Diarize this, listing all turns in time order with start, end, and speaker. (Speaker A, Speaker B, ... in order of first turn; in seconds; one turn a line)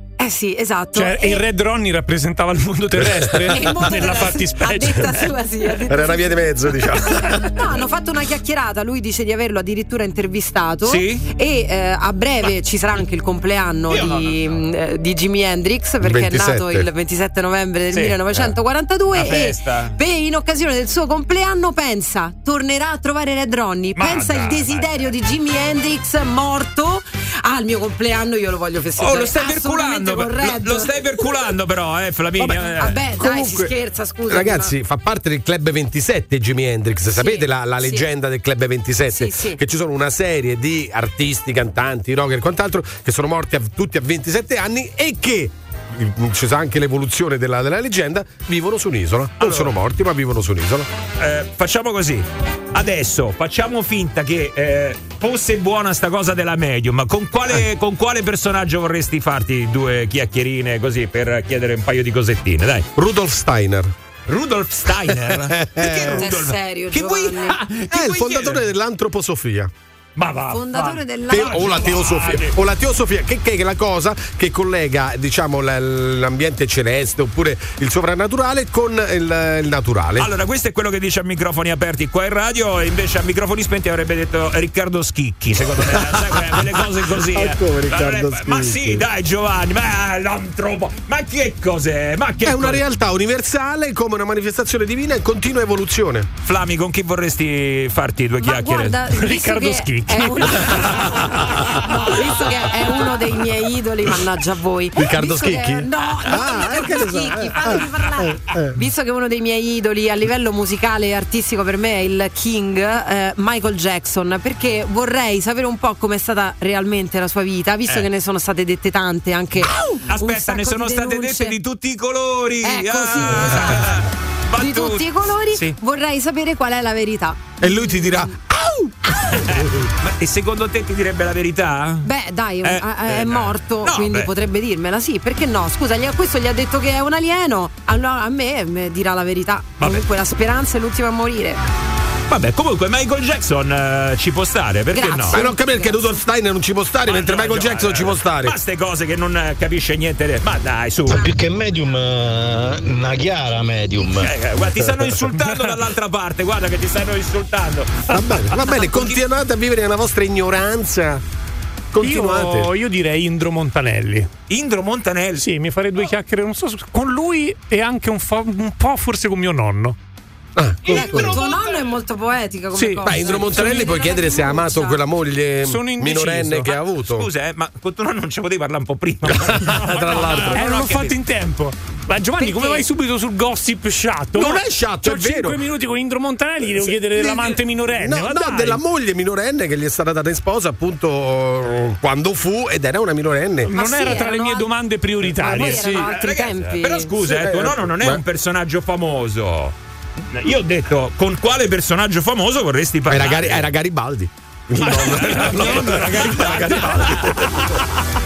Speaker A: 0.2-1.4
Speaker B: 0.9-5.3
Speaker C: 3.0-3.8
Speaker A: 3.5-6.4
Speaker C: 5.9-7.5
Speaker A: 7.2-30.9
Speaker D: 10.8-11.2
Speaker D: 13.9-14.6
Speaker C: 16.0-16.9
Speaker D: 17.9-18.4
Speaker D: 19.1-19.9
Speaker D: 23.9-25.0
Speaker D: 29.0-33.0
Speaker C: 32.4-33.7
Speaker A: 32.8-34.7
Speaker C: 34.3-50.9
Speaker A: 37.1-38.0
Speaker A: 39.1-39.6
Speaker D: 49.4-49.7
Speaker D: 51.2-62.9
Speaker C: 63.0-63.9
Speaker D: 64.3-68.7
Speaker C: 65.1-66.3
Speaker A: 66.1-67.6
Speaker C: 67.9-69.7
Speaker D: 70.2-72.5
Speaker A: 70.5-72.0
Speaker C: 71.3-80.3
Speaker D: 80.2-92.8
Speaker C: 85.8-89.0
Speaker C: 92.4-96.3
Speaker D: 96.4-99.0
Speaker A: 98.4-101.0
Speaker B: 99.1-101.1
Speaker A: 102.1-121.5
Speaker C: 105.0-108.8
Speaker D: 120.1-125.8
Speaker A: 122.6-123.8
Speaker A: 124.6-128.3
Speaker C: 127.6-128.9
Speaker D: 129.3-132.1
Speaker A: 132.0-141.6
Speaker D: 132.6-134.3
Speaker D: 142.3-145.4
Speaker A: 144.9-146.2
Speaker C: 145.3-148.6
Speaker D: 147.1-151.3
Speaker E: 151.1-154.3
Speaker D: 154.2-159.2
Speaker B: 155.4-155.7
Speaker C: 158.1-161.2
Speaker C: 161.9-162.7
Speaker B: 162.0-164.3
Speaker D: 164.5-165.4
Speaker B: 165.4-169.9
Speaker C: 170.6-171.4
Speaker D: 170.8-171.8
Speaker A: 170.9-175.0
Speaker B: 172.7-173.6
Speaker C: 173.0-177.3
Speaker B: 175.6-176.7
Speaker D: 176.9-181.2
Speaker C: 179.3-180.7
Speaker B: 179.7-188.8
Speaker A: 182.4-182.8
Speaker C: 184.3-185.6
Speaker C: 186.8-194.2
Speaker B: 193.6-196.1
Speaker A: 193.7-194.7
Speaker A: 195.4-197.1
Speaker D: 195.5-203.7
Speaker C: 197.2-198.2
Speaker C: 203.1-207.7
Speaker D: 204.8-207.8
Speaker B: 205.6-206.0